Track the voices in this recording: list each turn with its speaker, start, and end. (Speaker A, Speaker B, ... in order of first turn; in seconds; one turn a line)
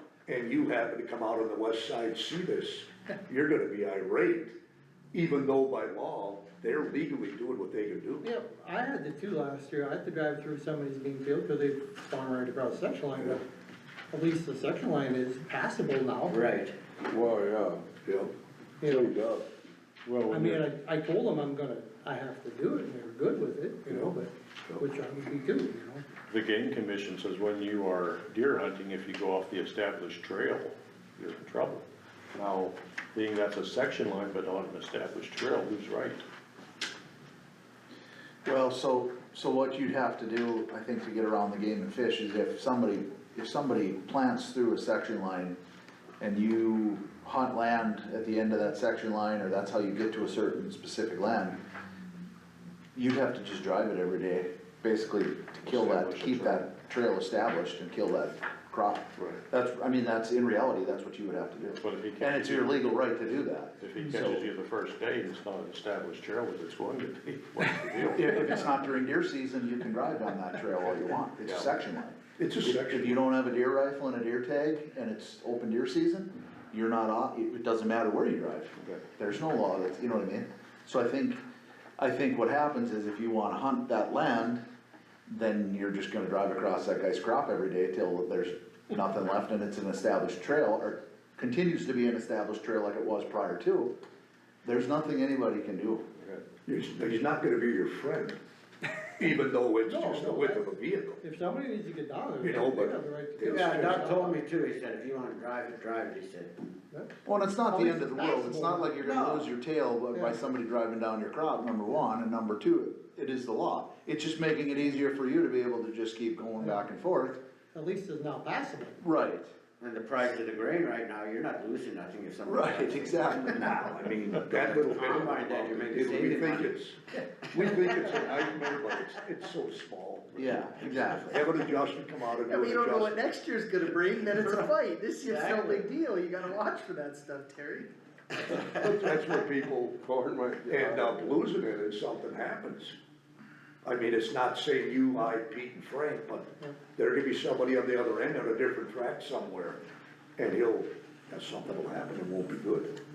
Speaker A: 0.3-4.6
Speaker A: 5.1-8.3
Speaker B: 8.2-13.4
Speaker B: 14.1-16.5
Speaker C: 16.3-16.7
Speaker D: 17.0-17.9
Speaker A: 18.0-18.3
Speaker B: 18.8-19.1
Speaker D: 18.8-19.5
Speaker E: 20.0-20.6
Speaker B: 20.3-26.0
Speaker D: 23.9-24.1
Speaker E: 26.3-36.2
Speaker F: 38.4-45.6
Speaker F: 46.2-51.6
Speaker F: 52.9-64.5
Speaker E: 55.6-56.6
Speaker E: 61.8-62.9
Speaker E: 63.8-68.5
Speaker F: 68.1-81.4
Speaker A: 72.4-73.2
Speaker A: 78.8-79.0
Speaker F: 82.0-84.6
Speaker F: 85.3-94.0
Speaker F: 94.6-96.0
Speaker A: 96.7-98.4
Speaker A: 99.2-101.2
Speaker B: 99.9-104.4
Speaker A: 102.4-104.0
Speaker C: 103.5-106.6
Speaker F: 107.2-117.4
Speaker B: 107.7-109.0
Speaker C: 109.0-109.5
Speaker B: 110.1-110.4
Speaker B: 117.7-119.0
Speaker F: 119.0-119.5
Speaker C: 119.8-123.6
Speaker F: 122.5-123.9
Speaker A: 123.3-133.2
Speaker C: 124.4-126.7
Speaker F: 130.3-131.4
Speaker G: 132.4-137.9
Speaker C: 135.3-135.8
Speaker A: 138.4-140.0
Speaker D: 139.4-141.4
Speaker A: 140.7-142.9
Speaker A: 143.8-149.8
Speaker A: 150.4-152.9